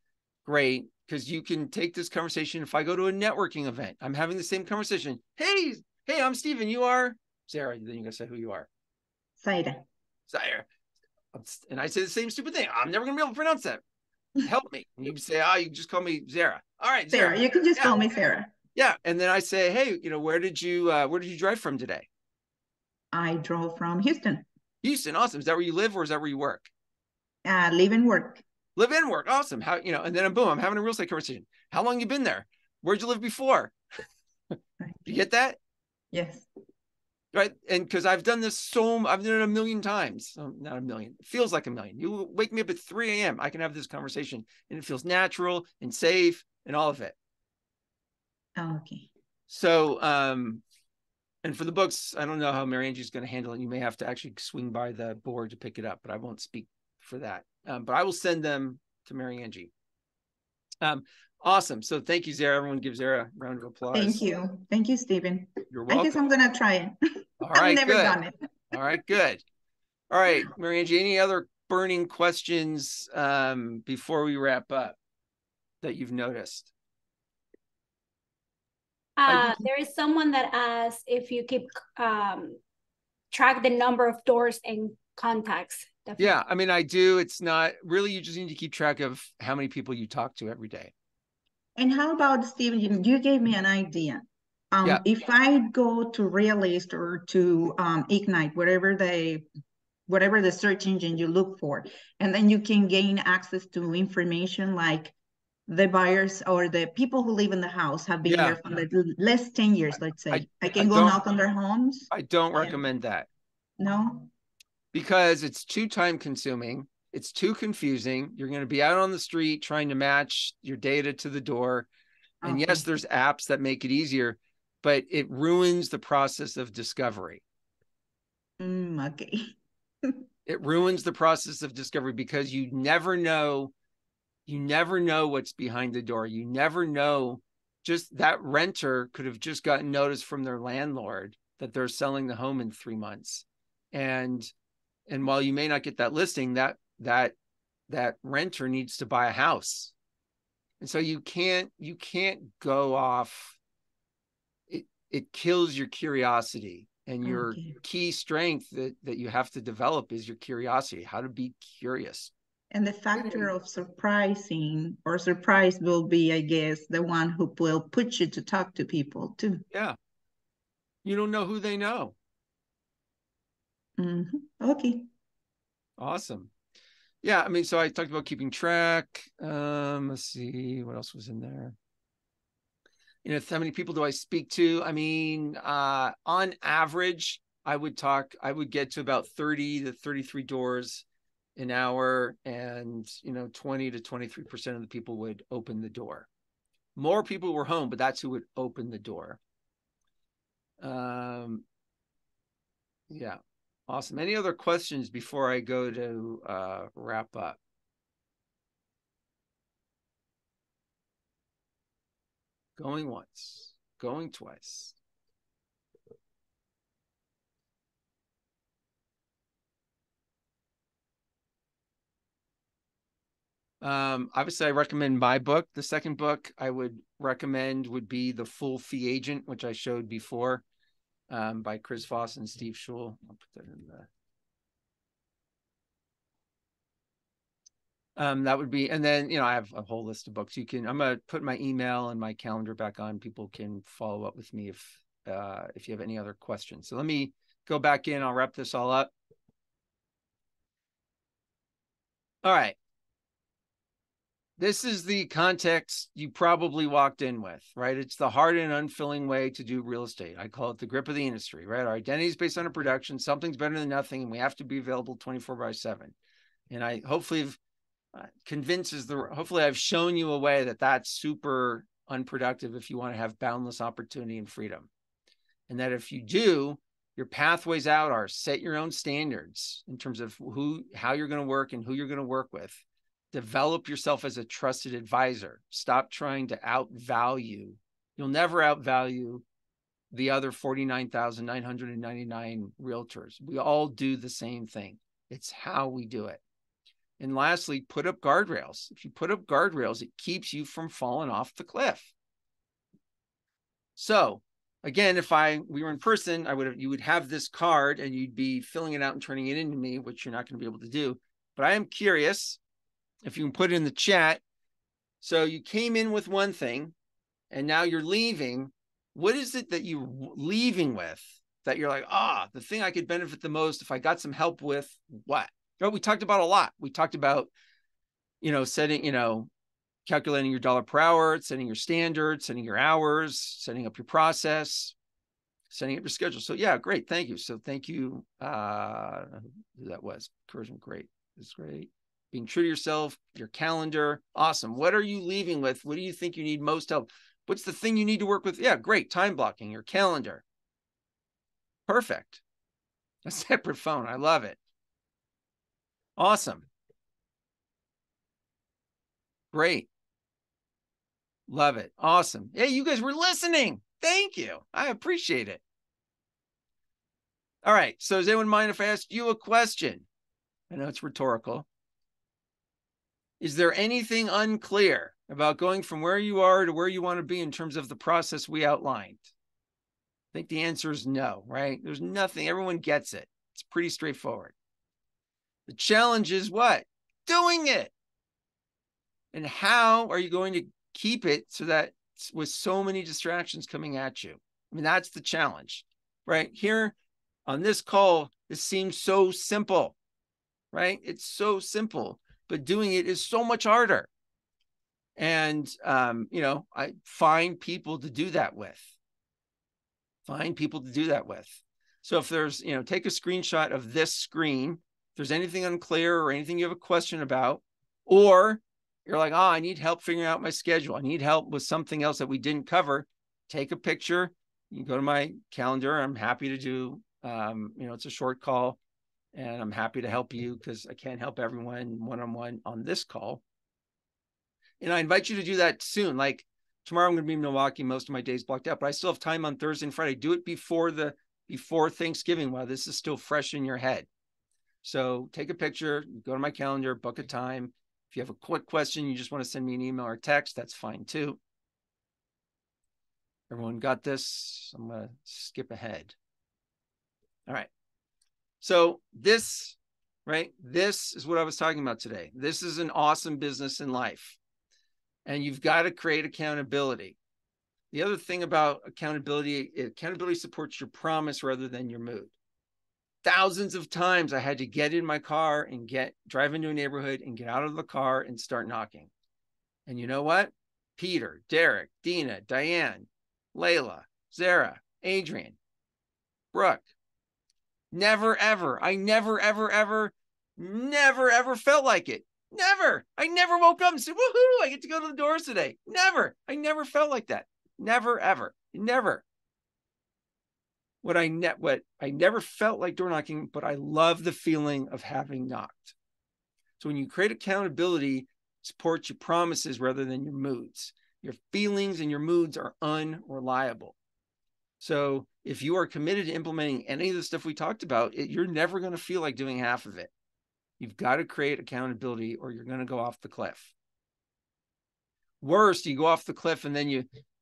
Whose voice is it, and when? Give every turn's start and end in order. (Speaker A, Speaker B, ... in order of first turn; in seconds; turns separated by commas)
Speaker A: 0.5-8.7, Speaker B: 9.4-9.8, Speaker A: 10.3-10.7, Speaker A: 11.3-13.8, Speaker A: 14.4-17.9, Speaker B: 17.1-18.5, Speaker A: 18.8-22.1, Speaker B: 23.1-24.4, Speaker A: 24.8-26.7, Speaker B: 27.4-28.4, Speaker A: 28.8-33.8, Speaker A: 35.1-35.6, Speaker B: 36.1-36.5, Speaker A: 37.3-47.1, Speaker B: 48.6-49.1, Speaker A: 49.5-50.6, Speaker A: 51.4-59.7, Speaker A: 60.8-64.2, Speaker B: 63.9-68.3, Speaker A: 65.7-66.2, Speaker A: 67.4-69.4, Speaker A: 70.1-75.0, Speaker A: 75.8-76.7, Speaker C: 79.2-82.6, Speaker A: 79.3-79.7, Speaker C: 83.3-86.4, Speaker A: 86.2-90.9, Speaker B: 91.8-99.5, Speaker B: 100.1-105.2, Speaker B: 105.7-112.8, Speaker A: 108.3-108.6, Speaker A: 110.3-111.2, Speaker A: 112.1-113.3, Speaker B: 113.8-114.3, Speaker A: 114.9-121.9, Speaker B: 122.4-122.8, Speaker A: 122.4-127.4, Speaker B: 128.6-129.5, Speaker A: 130.5-133.7, Speaker A: 134.5-144.5, Speaker A: 145.1-147.3, Speaker A: 147.9-149.9, Speaker A: 150.8-153.6, Speaker A: 154.7-162.3, Speaker B: 157.2-157.8, Speaker B: 162.7-169.6, Speaker A: 163.1-163.5, Speaker A: 169.7-170.0, Speaker A: 171.0-172.2, Speaker B: 174.0-175.1, Speaker A: 176.0-176.5, Speaker A: 177.2-181.8, Speaker A: 183.2-191.1, Speaker A: 191.6-196.3, Speaker A: 197.0-199.4, Speaker A: 200.8-201.7, Speaker A: 203.1-207.6, Speaker A: 212.8-215.0, Speaker A: 223.8-230.6, Speaker A: 231.3-234.1, Speaker A: 238.2-249.1, Speaker A: 252.4-252.8, Speaker A: 254.6-266.1, Speaker A: 266.7-267.6, Speaker A: 268.1-274.9, Speaker A: 275.7-289.4, Speaker A: 290.1-296.4, Speaker A: 297.2-302.1, Speaker A: 304.0-312.6, Speaker A: 313.2-314.4, Speaker A: 315.2-316.9, Speaker A: 317.5-327.5, Speaker A: 328.4-329.5, Speaker A: 330.1-334.9, Speaker A: 335.7-350.4, Speaker A: 351.9-352.4, Speaker A: 353.2-354.6, Speaker A: 356.2-356.7, Speaker A: 359.5-359.9, Speaker A: 361.5-365.6, Speaker A: 367.6-370.1, Speaker A: 370.7-371.7, Speaker A: 373.4-379.3, Speaker A: 380.3-384.5, Speaker A: 385.7-387.9, Speaker A: 389.3-396.9, Speaker A: 397.5-400.0, Speaker A: 400.7-404.1, Speaker A: 405.2-408.9, Speaker A: 410.3-428.8, Speaker A: 429.3-433.4, Speaker A: 434.8-444.1, Speaker A: 444.8-451.4, Speaker A: 453.5-456.2, Speaker A: 458.6-464.4, Speaker A: 465.3-467.2, Speaker A: 467.9-472.3, Speaker A: 473.2-479.1, Speaker A: 479.9-485.6, Speaker A: 486.5-486.9, Speaker A: 487.9-499.2, Speaker A: 501.0-506.0, Speaker A: 506.8-514.0, Speaker A: 514.8-520.1, Speaker A: 520.8-523.7, Speaker A: 525.4-527.1